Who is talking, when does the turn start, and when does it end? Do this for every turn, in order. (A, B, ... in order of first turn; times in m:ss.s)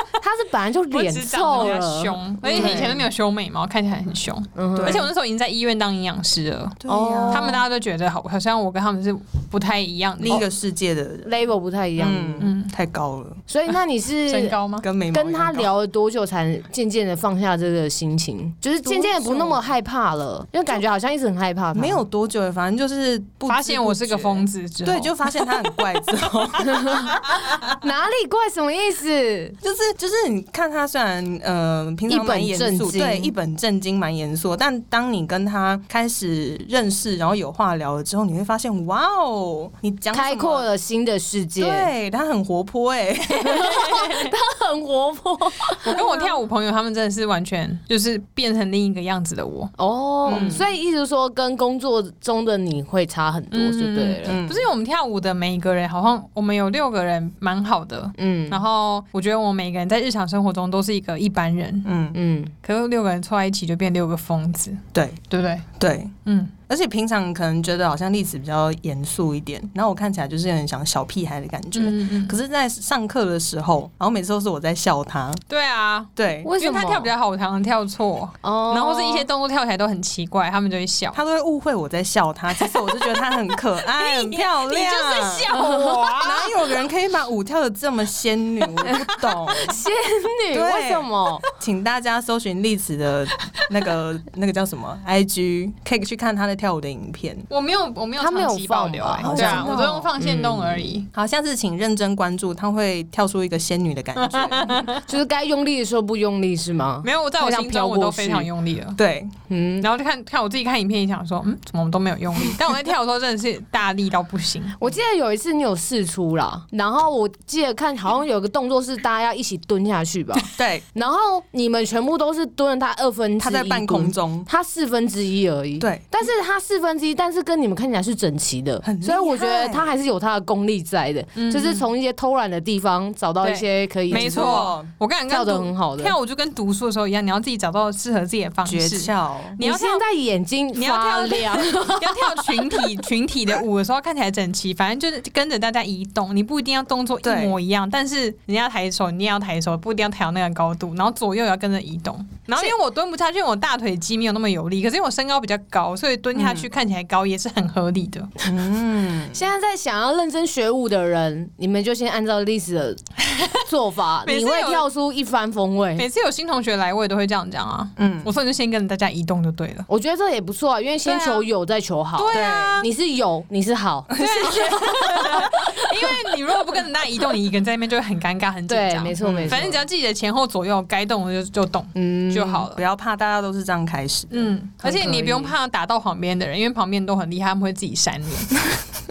0:00.2-0:02.9 A
0:00.9-0:10.4 B
0:02.4-0:03.1 C
0:04.6-0:05.0 A
0:04.8-0:05.1 C
0:06.8-0:07.6 C
0:06.9-0:07.6 A
0:10.2-0:11.3 C
0:11.2-0:12.5 A
0:12.0-0:13.4 C
0:12.4-0:12.7 B
0:13.5-0:14.6 A
0:14.3-0:14.9 B
0:14.8-0:15.7 C
0:15.1-0:22.0 A
0:18.8-0:19.6 C
0:21.8-0:27.5 C
0:23.5-0:25.6 B
0:26.7-0:29.6 A
0:29.6-0:40.7 C
0:32.1-0:33.3 A
0:40.1-0:41.9 A
0:41.6-0:44.3 C
0:43.4-0:46.3 A
0:45.8-0:49.7 B
0:49.8-0:54.4 A
0:50.3-0:50.6 B
0:50.3-0:50.7 C
0:53.5-1:01.9 B
0:54.2-0:54.7 C
0:58.2-0:58.6 A
1:01.8-1:02.2 C
1:02.1-1:02.5 A
1:02.6-1:05.7 B
1:04.9-1:05.2 C
1:05.8-1:15.4 C
1:06.2-1:06.5 B
1:11.8-1:12.4 B
1:15.5-1:21.2 B
1:16.2-1:16.5 C
1:16.4-1:17.1 A
1:18.4-1:19.3 A
1:21.1-1:25.6 C
1:23.9-1:26.6 B
1:25.6-1:26.0 A
1:26.2-1:29.8 C
1:29.1-1:29.4 B
1:29.5-1:31.4 A
1:30.5-1:37.5 C
1:37.5-1:41.1 B
1:38.2-1:40.9 A
1:39.2-1:40.1 C
1:41.1-1:44.9 C
1:44.2-1:45.1 B
1:45.0-1:48.5 A
1:47.0-1:49.0 B
1:49.0-1:49.3 C
1:49.5-1:49.9 A
1:49.8-1:54.8 B
1:54.8-2:14.7 A
2:00.6-2:00.8 C
2:03.4-2:04.5 C
2:08.8-2:09.9 C
2:11.4-2:11.9 B
2:13.4-2:20.0 B
2:14.1-2:14.9 C
2:15.3-2:16.2 A
2:18.6-2:19.6 C
2:19.6-2:23.0 A
2:20.7-2:38.3 B
2:27.2-2:27.6 C
2:36.4-2:36.7 C
2:38.4-2:39.4 C
2:39.3-2:43.0 A
2:43.3-2:43.6 B
2:43.6-2:46.1 A
2:44.2-2:44.8 B
2:46.0-2:49.9 B
2:48.0-2:48.3 C
2:49.9-2:56.0 A
2:51.0-2:51.5 B
2:52.2-2:52.9 B
2:52.3-2:52.9 C
2:54.1-2:55.5 C
2:54.2-3:02.8 B
2:58.7-2:59.8 A
2:59.2-2:59.7 C
3:02.0-3:02.6 A
3:02.6-3:04.5 C
3:04.3-3:08.6 B
3:04.8-3:05.5 A